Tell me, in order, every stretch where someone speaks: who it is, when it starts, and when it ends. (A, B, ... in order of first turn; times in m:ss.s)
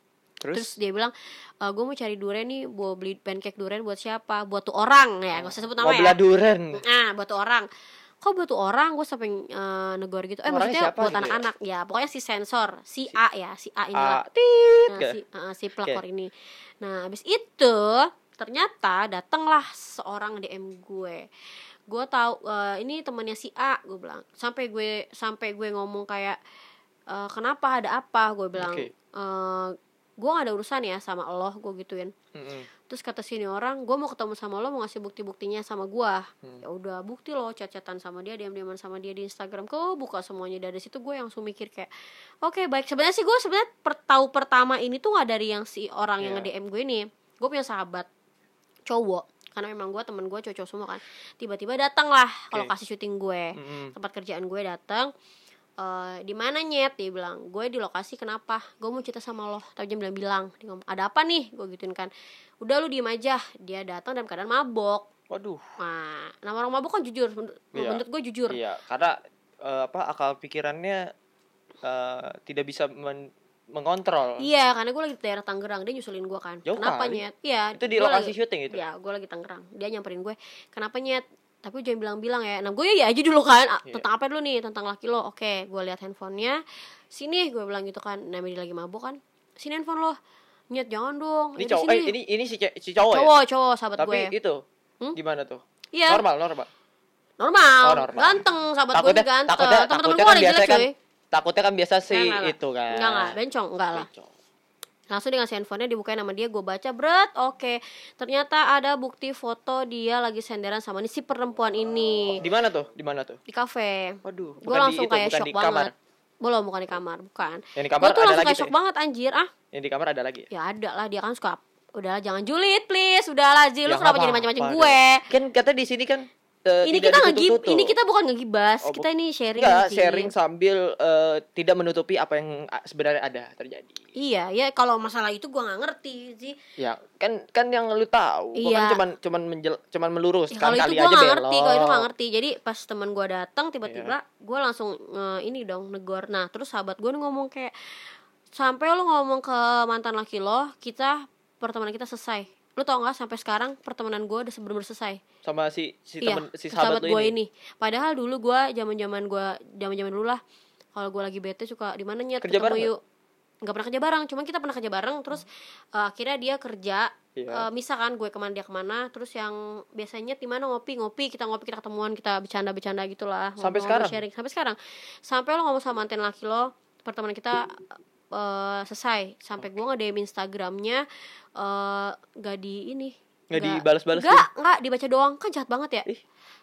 0:00.4-0:00.7 A
0:00.5-0:06.2 B
0:05.4-0:06.8 A
0:06.7-0:07.7 B
0:08.2-0:14.2 B
0:10.5-0:11.4 A
0:14.0-0:15.2 A
0:14.9-0:21.3 B
0:21.9-0:26.4 B
0:27.1-0:32.1 B
0:28.6-0:28.9 A
0:32.4-0:32.7 A
0:32.9-0:41.9 B
0:42.4-0:48.1 B
0:46.2-0:46.5 A
0:48.9-0:55.1 B
0:53.6-0:53.9 A
0:55.8-1:02.1 B
1:02.6-1:05.1 B
1:05.3-1:05.6 A
1:05.8-1:08.6 B
1:07.8-1:11.0 A
1:11.8-1:14.5 A
1:14.4-1:26.6 B
1:16.7-1:17.2 A
1:17.8-1:18.8 A
1:27.1-1:30.2 B
1:30.7-1:32.1 B
1:31.6-1:33.3 A
1:33.1-1:34.3 B
1:34.0-1:34.6 A
1:35.2-1:36.7 A
1:35.9-1:36.2 B
1:37.4-1:40.9 B
1:37.8-1:43.4 A
1:42.1-1:44.1 B
1:43.9-1:44.3 A
1:45.1-1:52.4 B
1:52.3-1:53.4 A
1:53.5-1:59.5 B
1:54.2-1:55.9 A
1:57.8-1:58.7 A
1:59.7-2:00.5 A
2:00.5-2:05.3 B
2:03.9-2:07.9 A
2:06.9-2:10.3 B
2:08.8-2:14.0 A
2:14.2-2:16.6 B
2:16.8-2:22.1 A
2:18.6-2:19.0 B
2:20.5-2:27.7 B
2:23.9-2:24.1 A
2:28.6-2:35.2 B
2:35.4-2:37.3 A
2:36.2-2:40.4 B
2:41.0-2:43.0 B
2:42.4-2:42.9 A
2:43.6-2:57.8 B
2:47.4-2:47.7 A
2:53.6-2:54.2 A
2:58.3-3:01.0 B
3:01.6-3:06.1 B
3:03.5-3:04.5 A